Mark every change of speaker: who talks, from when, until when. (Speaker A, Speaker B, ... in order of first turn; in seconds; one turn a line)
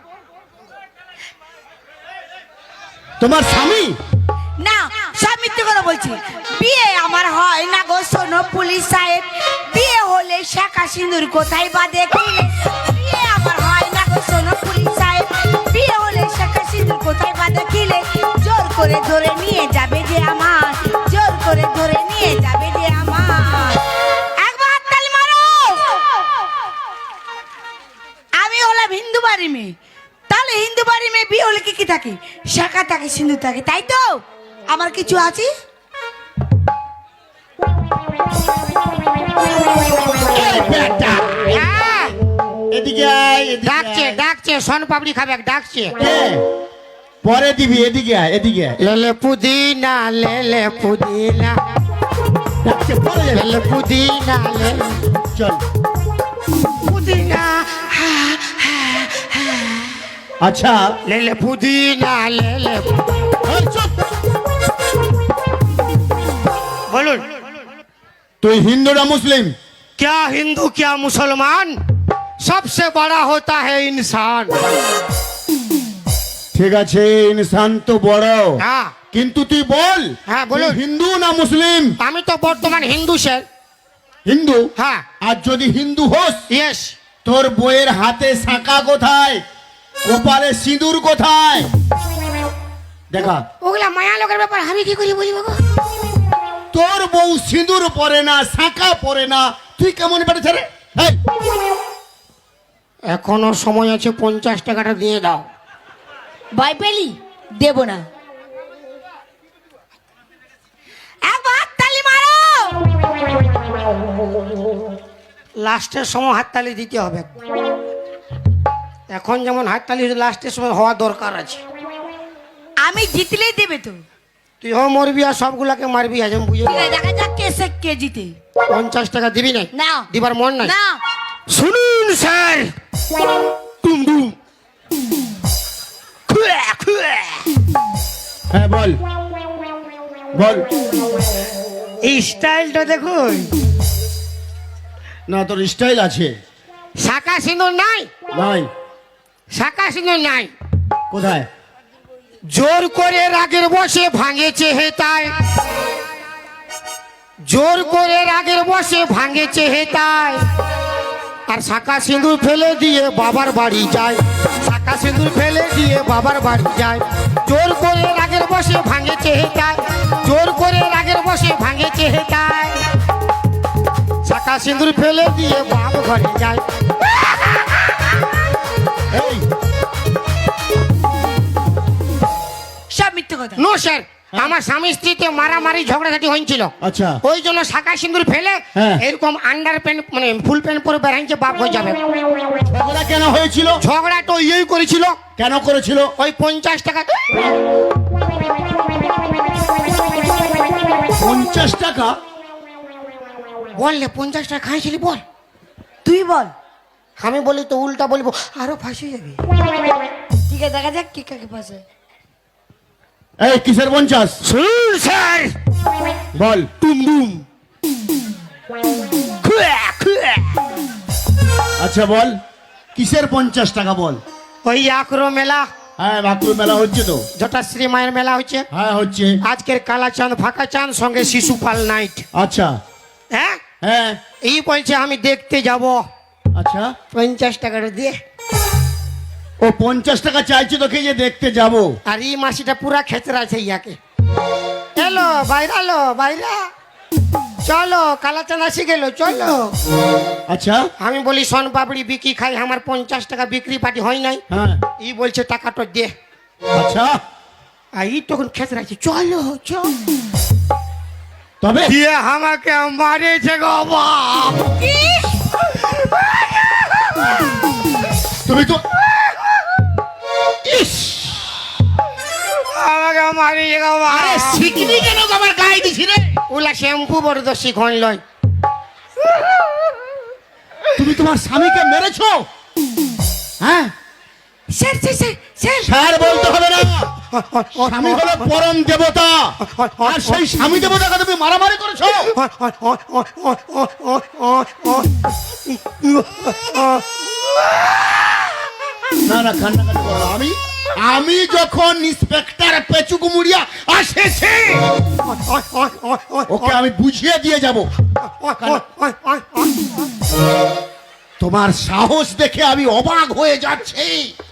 Speaker A: 3.2-4.0
Speaker B: 4.6-23.8
Speaker B: 24.4-26.0
Speaker B: 28.4-29.7
Speaker B: 30.3-35.5
Speaker A: 40.3-41.6
Speaker C: 41.5-42.1
Speaker A: 42.7-44.2
Speaker C: 43.6-46.0
Speaker A: 46.0-46.4
Speaker A: 47.2-48.8
Speaker C: 48.8-51.6
Speaker A: 52.6-53.8
Speaker C: 53.3-55.0
Speaker A: 55.3-55.6
Speaker C: 56.8-59.9
Speaker A: 60.4-60.9
Speaker C: 61.0-63.0
Speaker A: 63.4-63.9
Speaker C: 66.9-67.2
Speaker A: 68.4-69.5
Speaker C: 70.0-71.8
Speaker C: 72.4-74.6
Speaker A: 76.5-78.6
Speaker C: 78.6-78.9
Speaker A: 79.1-82.0
Speaker C: 80.3-80.8
Speaker C: 82.0-83.4
Speaker A: 84.2-84.7
Speaker C: 84.8-85.0
Speaker A: 85.2-86.4
Speaker C: 86.5-86.9
Speaker A: 87.2-89.4
Speaker A: 90.0-91.7
Speaker A: 93.1-93.4
Speaker C: 93.6-95.6
Speaker A: 96.7-101.2
Speaker C: 103.1-105.5
Speaker B: 106.5-108.0
Speaker B: 111.2-112.8
Speaker C: 115.6-117.3
Speaker C: 119.1-121.6
Speaker B: 122.8-124.0
Speaker C: 124.6-126.9
Speaker B: 126.7-128.3
Speaker C: 128.7-130.7
Speaker B: 129.7-130.1
Speaker B: 130.6-131.0
Speaker C: 131.5-132.7
Speaker C: 133.8-134.3
Speaker C: 136.3-137.4
Speaker A: 138.5-139.0
Speaker A: 140.3-140.7
Speaker C: 142.0-143.5
Speaker A: 145.3-146.3
Speaker C: 147.0-148.1
Speaker A: 148.3-148.7
Speaker C: 149.5-150.5
Speaker A: 151.1-151.5
Speaker C: 152.5-155.4
Speaker C: 157.5-160.4
Speaker C: 161.5-172.8
Speaker C: 174.2-176.6
Speaker A: 179.1-179.4
Speaker B: 182.9-183.6
Speaker C: 183.6-192.0
Speaker A: 186.8-187.2
Speaker A: 188.7-189.0
Speaker A: 192.7-193.8
Speaker C: 193.8-195.2
Speaker A: 195.4-196.1
Speaker C: 196.2-197.3
Speaker A: 201.2-202.2
Speaker C: 203.7-205.2
Speaker B: 206.0-206.5
Speaker C: 207.2-209.4
Speaker B: 210.5-211.8
Speaker A: 213.4-214.4
Speaker C: 214.4-215.5
Speaker A: 216.3-216.7
Speaker C: 216.8-217.4
Speaker C: 219.4-220.6
Speaker A: 221.8-222.4
Speaker A: 222.9-224.2
Speaker C: 224.6-225.7
Speaker A: 226.0-227.2
Speaker C: 227.3-228.7
Speaker A: 228.7-229.4
Speaker C: 229.4-232.2
Speaker A: 232.3-232.8
Speaker C: 233.3-233.6
Speaker A: 233.8-234.2
Speaker C: 234.4-236.0
Speaker A: 236.6-236.9
Speaker C: 237.1-238.2
Speaker A: 239.6-241.9
Speaker C: 242.1-244.0
Speaker C: 245.0-246.7
Speaker C: 247.6-249.7
Speaker A: 250.5-250.9
Speaker C: 251.0-254.4
Speaker A: 254.5-254.8
Speaker C: 255.0-256.1
Speaker A: 256.7-257.2
Speaker C: 258.0-259.9
Speaker A: 261.6-261.9
Speaker C: 261.8-264.9
Speaker B: 264.9-265.3
Speaker C: 265.7-266.9
Speaker A: 268.4-268.8
Speaker A: 270.6-271.6
Speaker C: 272.5-274.6
Speaker A: 274.1-276.4
Speaker C: 276.5-278.2
Speaker A: 280.9-282.4
Speaker A: 283.6-283.9
Speaker B: 284.7-285.9
Speaker A: 285.8-287.1
Speaker C: 287.3-288.5
Speaker A: 287.8-292.3
Speaker C: 289.6-290.7
Speaker C: 292.3-298.3
Speaker A: 299.2-304.9
Speaker C: 305.2-306.8
Speaker A: 306.5-307.9
Speaker C: 308.2-309.9
Speaker A: 311.4-314.3